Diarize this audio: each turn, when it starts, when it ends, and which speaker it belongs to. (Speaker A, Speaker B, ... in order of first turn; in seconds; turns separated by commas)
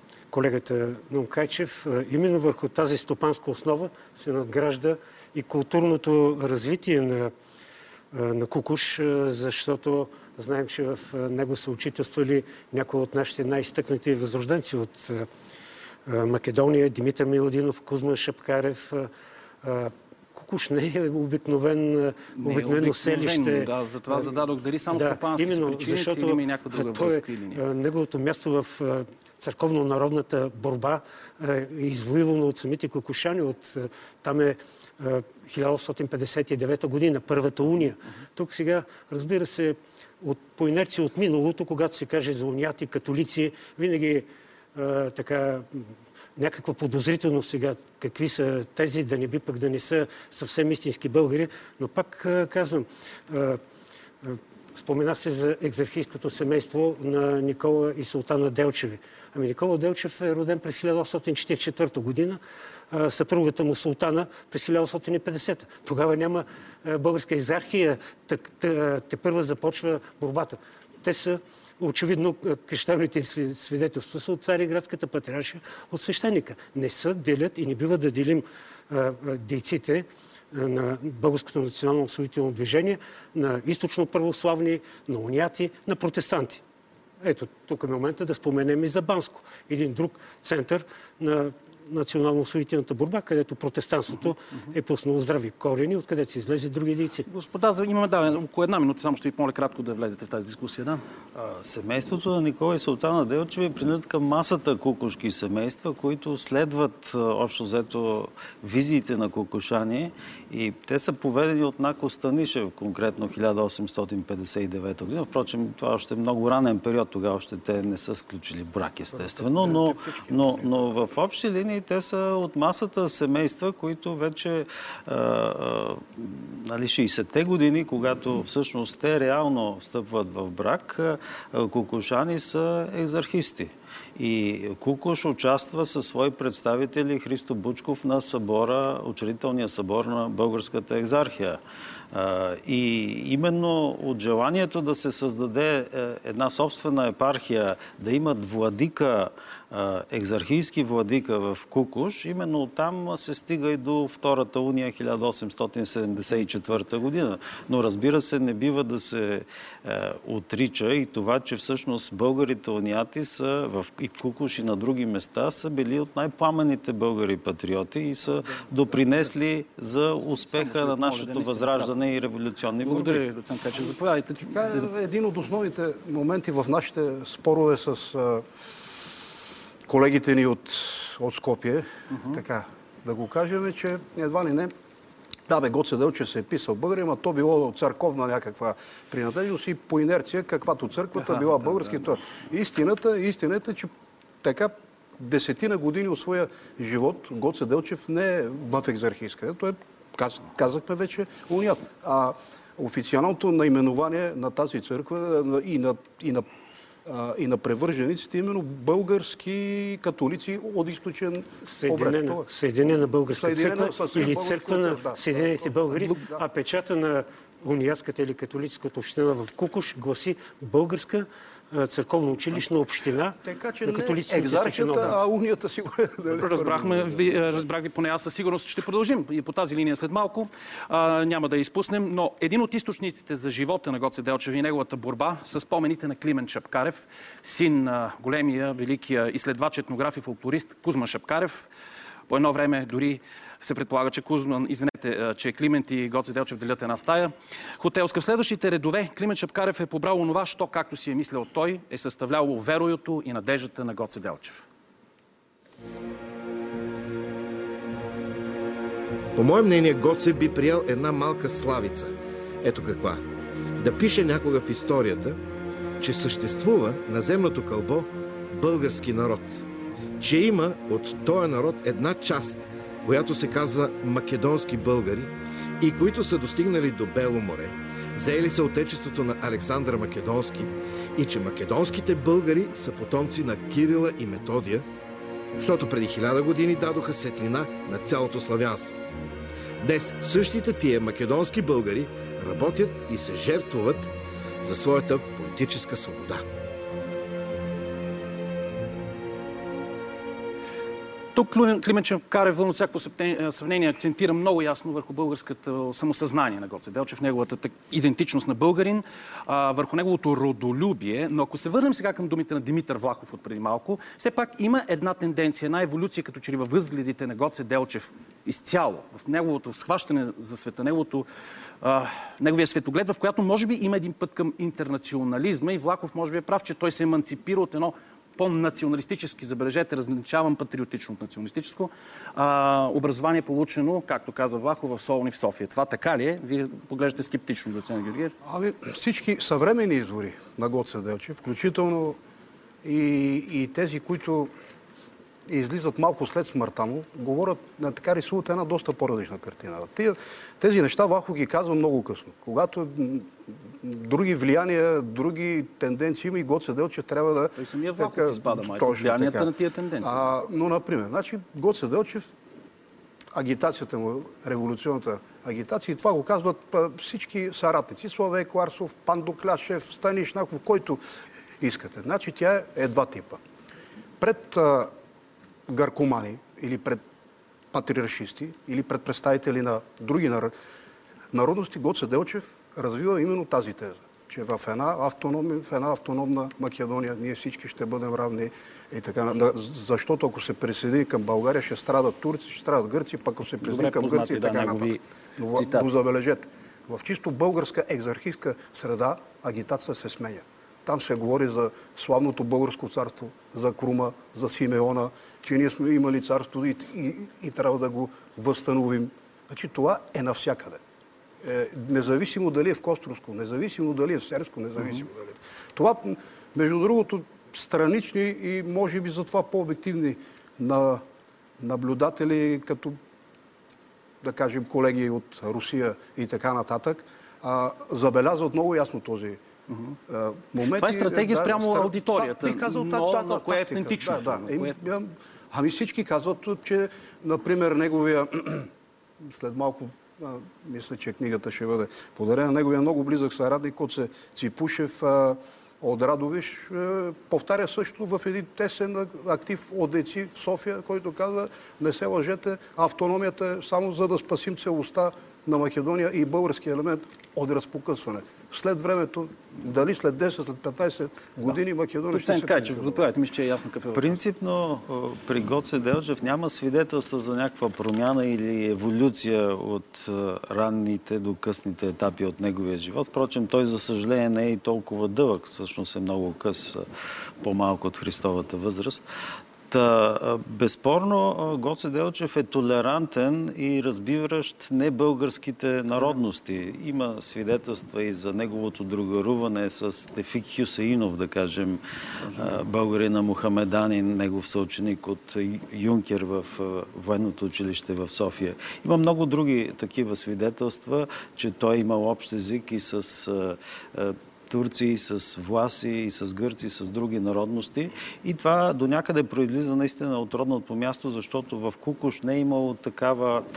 Speaker A: 0.3-7.3, Speaker A: 8.1-15.3, Speaker A: 16.1-19.1, Speaker A: 19.6-53.6, Speaker B: 22.4-27.6, Speaker A: 54.2-62.4, Speaker A: 62.9-86.6, Speaker A: 87.2-97.2, Speaker B: 97.3-101.0, Speaker C: 101.3-141.6, Speaker D: 119.1-120.9, Speaker C: 142.1-173.2, Speaker D: 168.7-168.9, Speaker B: 170.4-171.9, Speaker B: 172.8-174.9, Speaker D: 174.5-178.5, Speaker D: 179.8-184.7, Speaker D: 185.5-193.9, Speaker D: 194.4-206.4, Speaker D: 207.0-212.5, Speaker A: 211.7-225.2, Speaker D: 213.4-216.4, Speaker D: 223.4-227.3, Speaker B: 226.3-241.7, Speaker B: 242.3-254.6, Speaker E: 259.3-263.2, Speaker E: 263.8-265.4, Speaker E: 266.0-269.6, Speaker E: 270.2-284.9, Speaker E: 285.6-289.0, Speaker E: 289.8-296.4, Speaker B: 301.3-321.2, Speaker B: 321.8-338.3, Speaker D: 338.4-342.2, Speaker D: 342.8-344.5, Speaker D: 345.5-362.3, Speaker B: 357.6-360.3, Speaker D: 363.3-371.0, Speaker D: 371.6-373.4, Speaker D: 374.2-374.9, Speaker D: 375.7-377.0, Speaker D: 377.7-380.5, Speaker D: 381.3-410.8, Speaker B: 393.6-395.0, Speaker B: 395.5-395.9, Speaker D: 411.4-421.0, Speaker D: 421.6-423.0, Speaker D: 424.2-429.4, Speaker B: 429.7-429.9, Speaker D: 430.1-438.7, Speaker B: 430.6-434.8, Speaker D: 439.2-463.0, Speaker B: 462.1-464.2, Speaker C: 463.9-476.9, Speaker C: 477.4-479.0, Speaker C: 479.7-491.8, Speaker B: 492.3-492.6, Speaker C: 492.3-513.4